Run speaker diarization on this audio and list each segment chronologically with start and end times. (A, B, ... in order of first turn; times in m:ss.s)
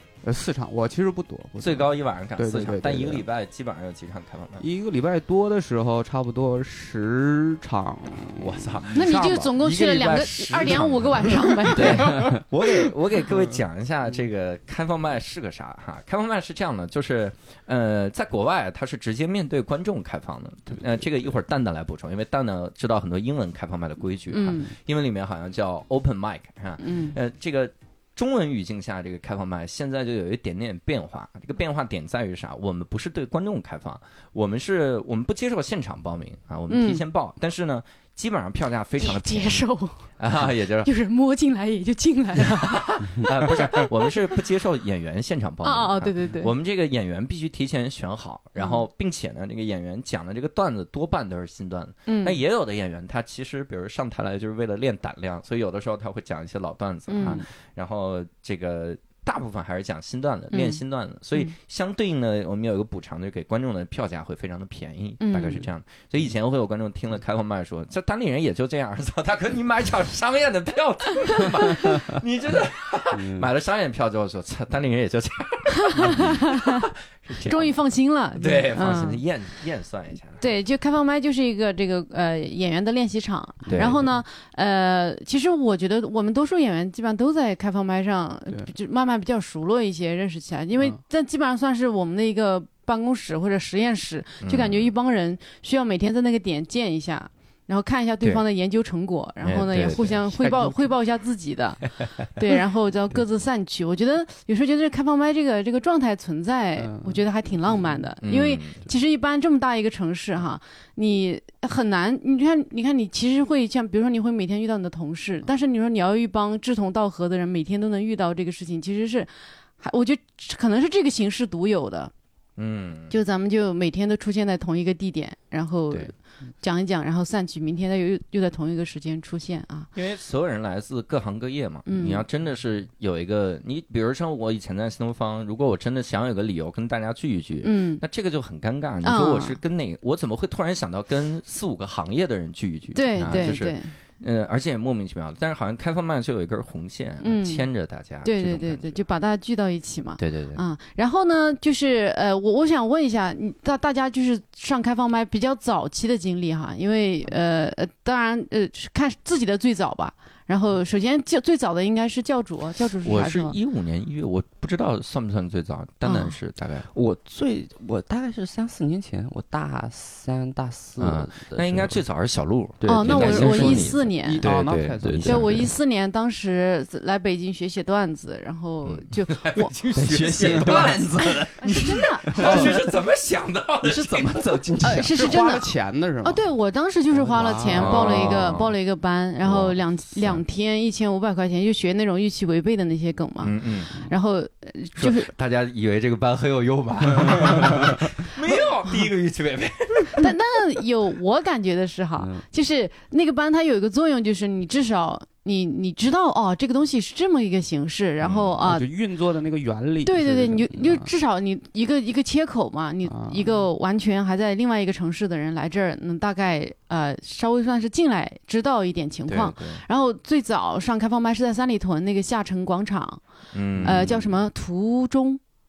0:00.2-0:03.2 A
0:01.6-0:04.6 B
0:04.6-0:08.9 A
0:08.4-0:39.7 B
0:08.9-0:12.2 C
0:11.8-0:12.4 D
0:24.3-0:24.7 C
0:26.8-0:27.2 C
0:36.7-0:37.0 C
0:39.0-0:40.0 C
0:40.2-0:40.9 B
0:40.8-0:44.1 C
0:42.4-1:17.7 B
0:45.6-0:46.5 C
0:52.1-0:52.4 C
0:57.1-0:57.4 C
1:00.5-1:00.8 C
1:05.2-1:05.6 C
1:13.1-1:13.5 D
1:15.9-1:16.8 C
1:17.4-1:19.2 C
1:18.4-1:20.4 B
1:20.4-2:02.1 C
1:23.7-1:24.1 B
1:34.4-1:34.9 B
1:39.4-1:40.1 B
1:40.2-1:40.9 A
1:46.8-1:47.2 A
1:48.2-1:48.8 B
2:02.6-2:03.1 B
2:03.1-2:09.9 C
2:09.9-2:29.0 B
2:11.8-2:12.2 C
2:17.6-2:18.0 C
2:19.0-2:19.6 C
2:23.0-2:23.9 C
2:27.2-2:27.6 C
2:28.2-2:43.6 C
2:30.2-2:30.6 B
2:43.0-2:46.9 B
2:46.0-2:46.3 C
2:46.9-2:52.0 D
2:51.0-2:55.7 B
2:52.8-2:53.8 D
2:52.8-2:54.4 C
2:53.4-2:55.6 A
2:55.0-2:55.3 D
2:55.3-2:59.7 C
2:58.8-3:04.6 B
3:00.0-3:02.9 D
3:00.5-3:00.8 A
3:01.6-3:02.7 C
3:03.8-3:05.3 D
3:04.8-3:05.7 C
3:04.9-3:06.4 A
3:06.2-3:15.3 C
3:07.3-3:08.3 A
3:07.3-3:07.7 D
3:07.7-3:08.8 B
3:09.4-3:10.4 B
3:13.4-3:14.0 B
3:15.0-3:20.3 B
3:20.2-3:28.8 C
3:28.2-3:28.6 B
3:28.6-3:31.1 A
3:30.0-3:43.2 C
3:33.1-3:33.6 A
3:39.3-3:39.8 B
3:43.5-3:44.3 B
3:43.8-3:45.4 C